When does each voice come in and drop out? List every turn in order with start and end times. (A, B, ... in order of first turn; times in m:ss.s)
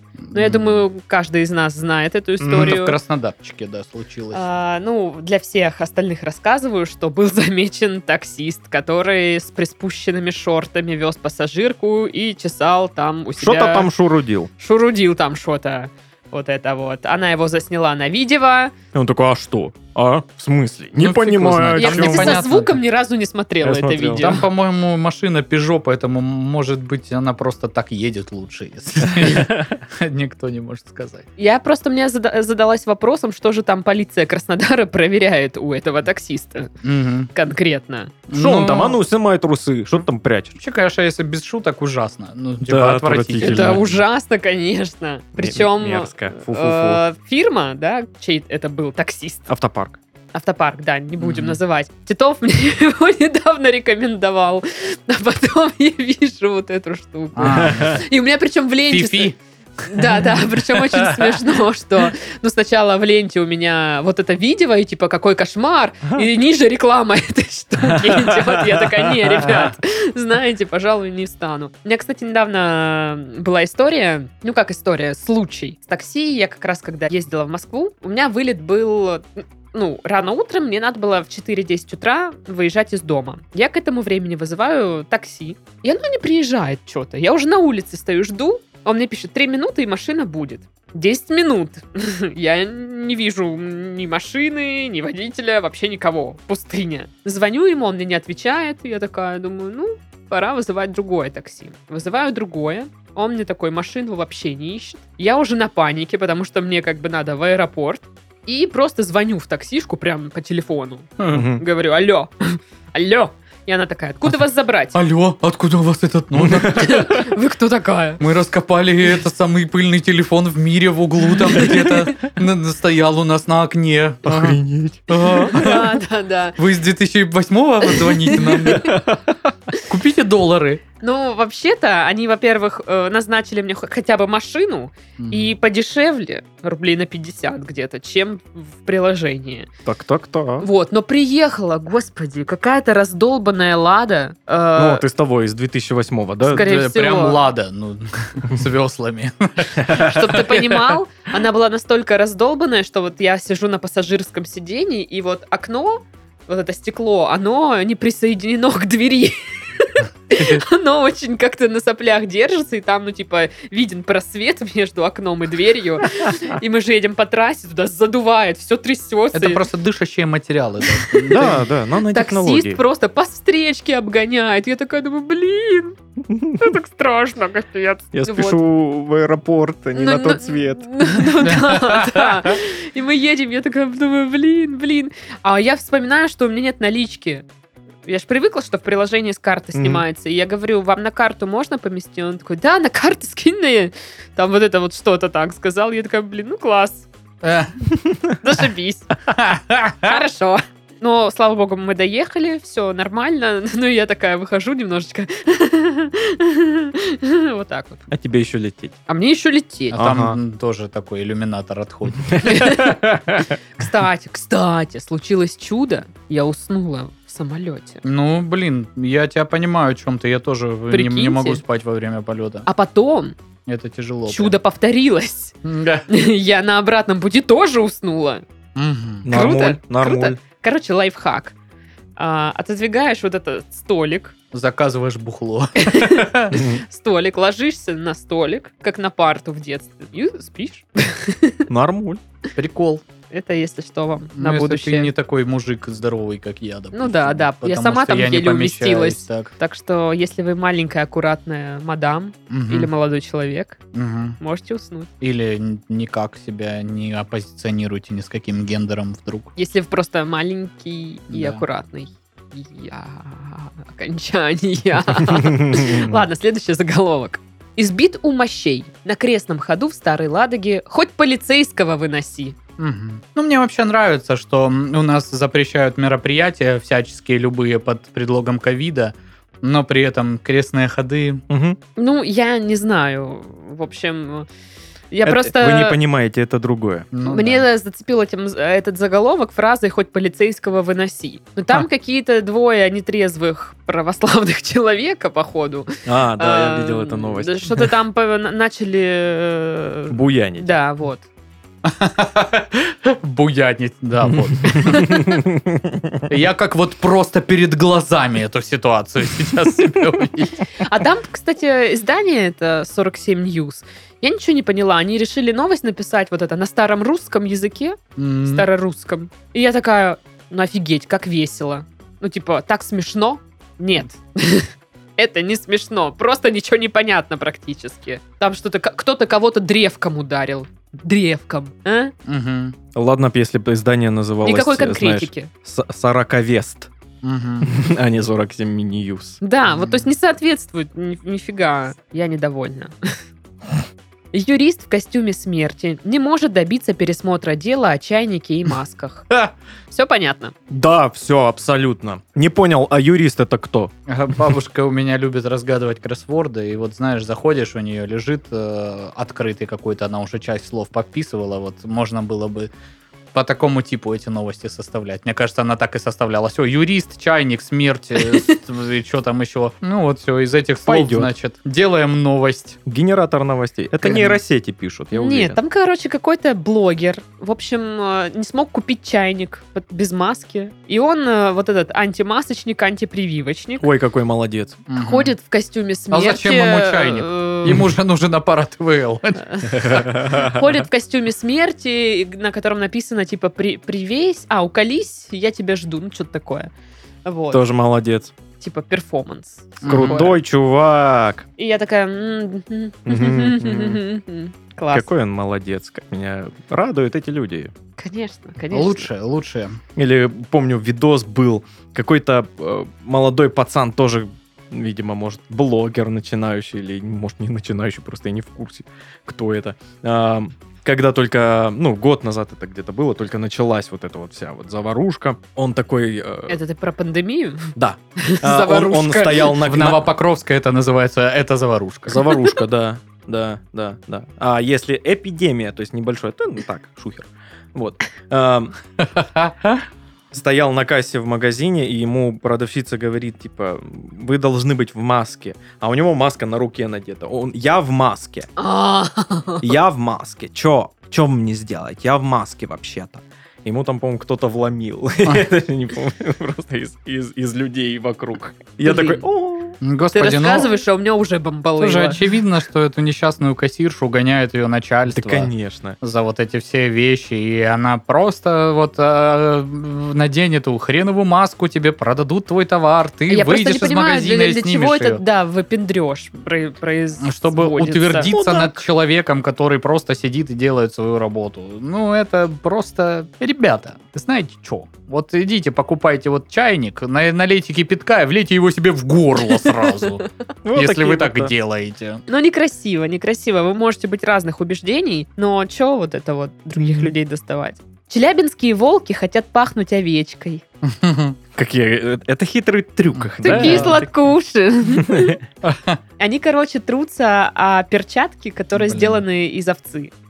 0:00.3-0:00.8 A
0:00.3-0:03.0 B
0:02.4-0:04.4 A
0:04.3-0:13.9 B
0:13.4-0:14.5 C
0:14.6-0:18.7 B
0:18.9-0:22.5 C
0:21.0-0:22.8 A
0:21.8-0:24.4 B
0:23.6-0:24.4 C
0:24.2-0:31.2 A
0:29.2-0:29.6 C
0:31.4-0:36.7 B
0:36.8-0:37.3 A
0:37.3-0:38.1 B
0:38.3-0:39.0 A
0:38.3-0:40.6 C
0:40.6-0:43.8 A
0:42.7-0:43.9 C
0:43.4-0:49.5 B
0:45.4-0:47.0 C
0:49.5-0:50.0 C
0:50.3-0:59.3 B
0:51.2-0:51.6 A
0:57.4-0:58.0 A
0:57.4-0:58.0 C
0:58.9-0:59.3 A
0:59.8-1:55.0 B
1:00.7-1:01.4 A
1:08.0-1:09.4 C
1:51.2-1:51.4 A
1:51.3-1:51.6 C
1:54.9-1:57.2 A
1:56.4-1:57.0 C
1:56.7-1:58.2 B
1:58.2-2:05.9 A
2:04.2-2:05.8 C
2:05.4-2:06.6 B
2:06.6-2:09.0 A
2:07.8-2:09.0 B
2:08.4-2:09.2 C
2:09.9-2:10.8 A
2:11.0-2:19.7 B
2:15.2-2:15.5 A
2:19.8-2:20.7 C
2:20.6-2:25.0 B
2:24.8-2:26.6 C
2:26.4-2:30.9 A
2:26.5-2:27.4 B
2:29.8-2:30.1 C
2:29.9-2:49.6 B
2:49.3-2:51.6 A
2:51.1-2:51.6 B
2:51.3-2:52.8 C
2:52.1-2:56.0 B
2:56.3-2:56.7 C
2:56.6-2:58.6 B
2:58.1-3:01.3 C
2:59.9-3:07.4 B
3:01.4-3:02.6 A
3:08.0-3:17.1 B
3:09.7-3:10.0 C
3:17.4-3:17.7 A
3:18.4-3:19.1 B
3:19.3-3:20.1 A
3:20.0-3:28.0 B
3:28.1-3:29.0 C
3:29.1-3:30.0 B
3:29.9-3:32.4 A
3:29.9-3:30.4 C
3:32.3-3:33.5 C
3:32.4-3:38.0 B
3:38.0-3:42.6 A
3:40.9-3:41.6 B
3:42.6-3:43.3 B
3:43.6-3:44.6 A
3:44.3-3:45.5 B
3:45.6-3:46.0 A
3:46.1-3:48.4 B
3:48.7-3:49.3 A
3:49.2-3:50.4 C
3:49.3-3:51.5 B
3:52.2-3:54.3 B
3:54.5-3:56.6 A
3:55.8-4:01.6 B
3:56.5-3:56.8 C
4:01.7-4:02.2 C
4:02.6-4:03.0 A
4:03.3-4:05.1 B
4:04.4-4:09.5 A
4:06.9-4:13.8 B
4:12.5-4:12.9 A
4:13.9-4:14.4 A
4:14.4-4:15.1 B
4:15.2-4:19.5 A
4:19.6-4:32.6 B
4:21.3-4:21.6 A
4:25.3-4:26.1 C
4:32.8-4:41.4 A
4:41.5-4:41.8 C
4:42.0-4:44.5 B
4:45.1-4:46.0 B
4:45.2-4:47.1 C
4:47.1-4:47.6 A
4:47.2-5:01.2 B
4:56.0-4:57.9 C
5:00.1-5:00.7 C
5:01.8-5:05.3 A
5:04.3-5:06.2 C
5:04.9-5:05.2 B
5:06.3-5:10.7 A
5:10.8-5:32.1 B
5:18.2-5:18.6 A
5:32.2-5:32.8 A
5:32.9-5:36.9 C
5:34.4-5:35.5 B
5:37.2-5:37.7 A
5:37.6-5:39.4 C
5:39.4-5:43.2 B
5:39.7-5:40.0 A
5:44.3-5:49.3 B
5:49.9-5:50.5 B
5:50.7-5:53.9 C
5:54.1-6:02.7 A
6:03.3-6:12.8 A
6:08.3-6:08.6 B
6:10.8-6:11.3 C
6:12.8-6:15.6 C
6:14.0-6:14.4 A
6:15.1-6:23.9 B
6:23.8-6:24.8 C
6:24.9-6:25.3 A
6:24.9-6:27.8 B
6:26.1-6:30.0 A
6:29.4-6:36.7 B
6:29.7-6:30.6 C
6:37.2-6:37.6 B
6:37.5-6:38.3 C
6:38.6-6:40.4 B
6:39.8-6:40.3 A
6:39.8-6:41.4 C
6:41.6-6:45.1 B
6:43.0-6:44.0 C
6:44.9-6:47.7 C
6:48.0-6:49.1 B
6:48.7-6:49.8 A
6:50.0-7:06.6 C
7:06.5-7:09.6 B
7:07.8-7:10.1 C
7:09.6-7:12.3 A
7:12.1-7:18.8 C
7:19.0-7:19.8 A
7:20.3-7:28.5 C
7:28.6-7:29.7 B
7:29.6-7:39.7 C
7:38.8-7:39.2 B
7:39.8-7:40.7 A
7:40.1-7:42.2 B
7:41.8-7:55.2 A
7:45.1-7:46.0 C
7:53.3-7:58.3 B
7:57.2-8:10.2 A
7:58.3-7:58.8 C
8:10.6-8:11.5 C
8:10.7-8:12.2 A
8:12.3-8:20.6 B
8:20.8-8:21.4 A
8:21.6-8:24.1 C
8:23.1-8:24.0 A
8:23.4-8:25.4 B
8:24.9-8:25.4 C
8:25.6-8:26.0 A
8:26.2-8:30.1 B
8:28.8-8:29.2 A